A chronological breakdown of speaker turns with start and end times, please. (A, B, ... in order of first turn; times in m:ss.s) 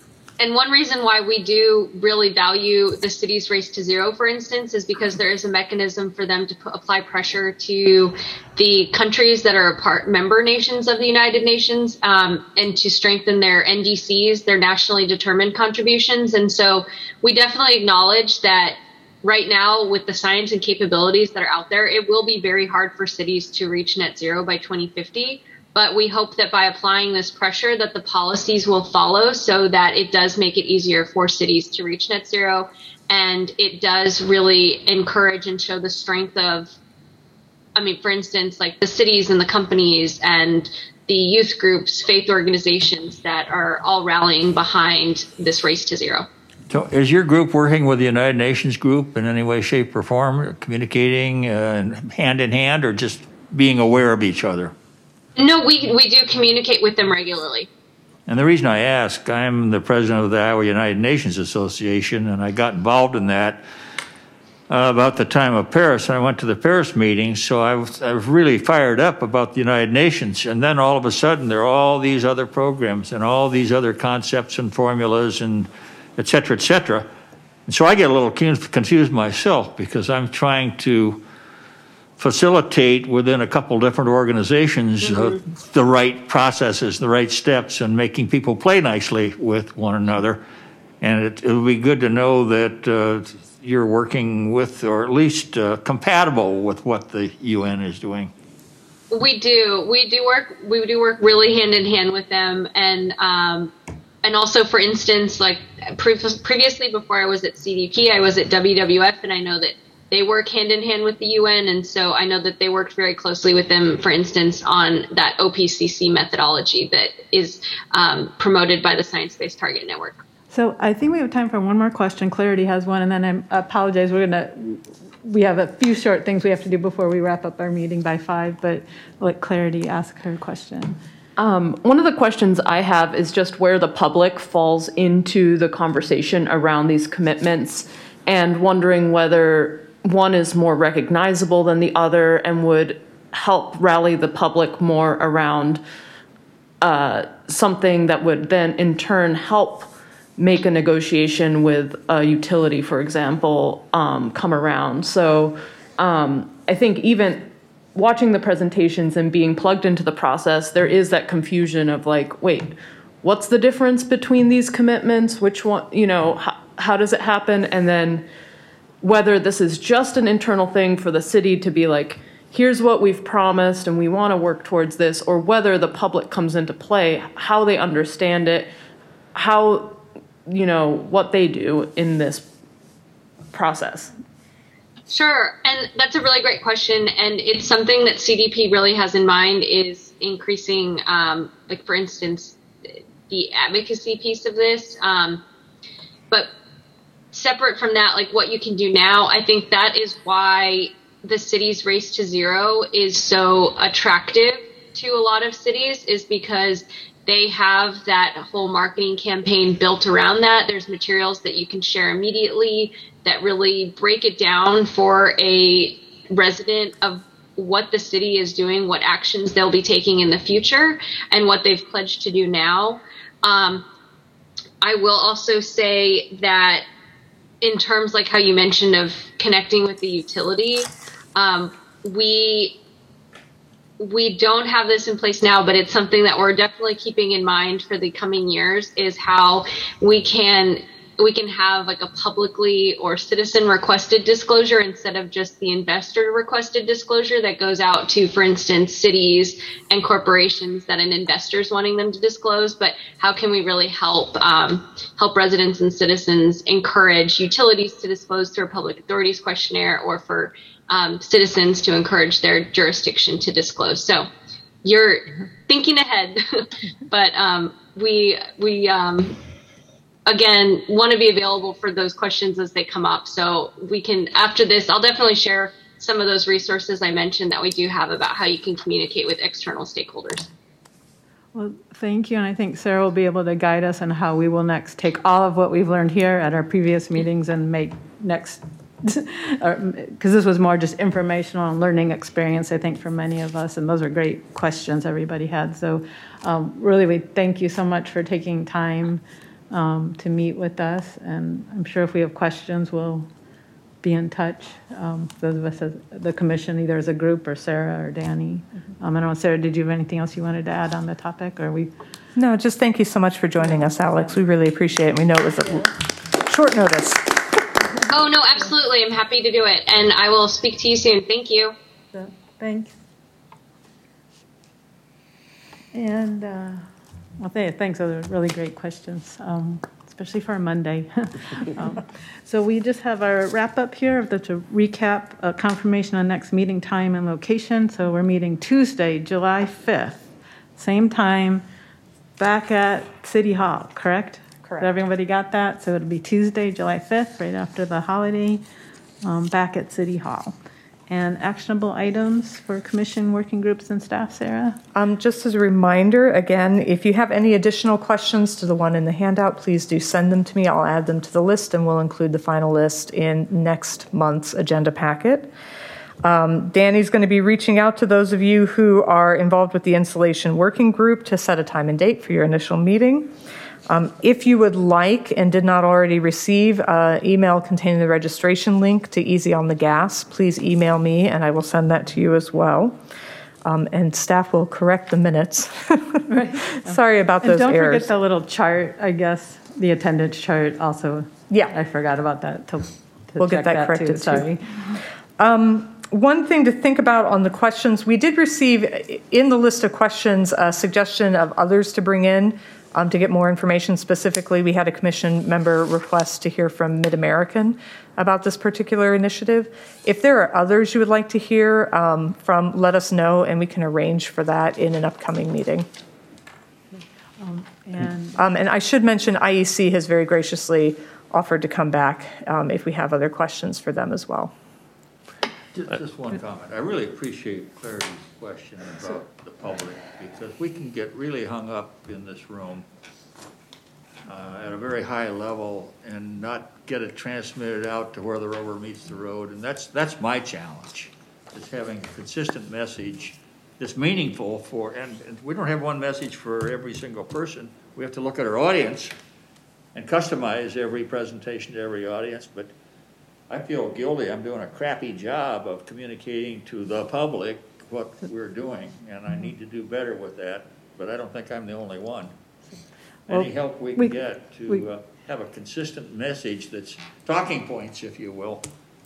0:00.4-0:36.7 A
0:37.8-0:46.3 A
0:46.7-0:54.7 B
0:55.4-0:57.7 A
0:58.3-1:03.6 B
1:04.7-1:17.1 B
1:17.7-1:21.2 B
1:22.2-1:30.4 B
1:31.0-1:38.3 B
1:39.1-2:00.2 A
2:00.5-2:11.0 C
2:11.4-2:25.8 D
2:26.8-2:42.7 D
2:43.2-2:48.2 D
2:49.0-2:58.7 D
2:59.3-3:02.5 D
3:03.5-3:04.1 D
3:05.1-3:12.6 A
3:13.3-3:15.4 A
3:17.3-3:43.9 A
3:44.8-3:46.8 A
3:47.6-3:52.8 A
3:54.0-4:24.3 A
4:24.8-4:29.4 A
4:30.3-4:40.5 A
4:41.5-5:03.3 C
5:04.0-5:11.9 C
5:12.4-5:17.4 E
5:13.7-5:14.2 C
5:18.1-5:21.7 A
5:22.1-5:23.0 C
5:25.9-5:26.9 C
5:27.4-5:40.2 C
5:40.8-5:41.6 C
5:42.4-5:48.6 C
5:44.6-5:44.9 E
5:49.2-5:50.6 C
5:51.1-5:54.8 C
5:54.9-6:05.5 E
6:06.2-6:13.3 E
6:13.9-6:23.0 E
6:23.6-6:28.1 E
6:26.3-6:35.0 C
6:33.4-6:34.5 E
6:35.4-6:55.9 E
6:56.9-6:58.4 C
6:58.4-7:04.5 E
7:05.7-7:12.9 B
7:14.2-7:29.1 B
7:29.9-7:32.7 B
7:33.5-7:42.3 B
7:43.3-7:48.7 B
7:43.3-7:44.2 C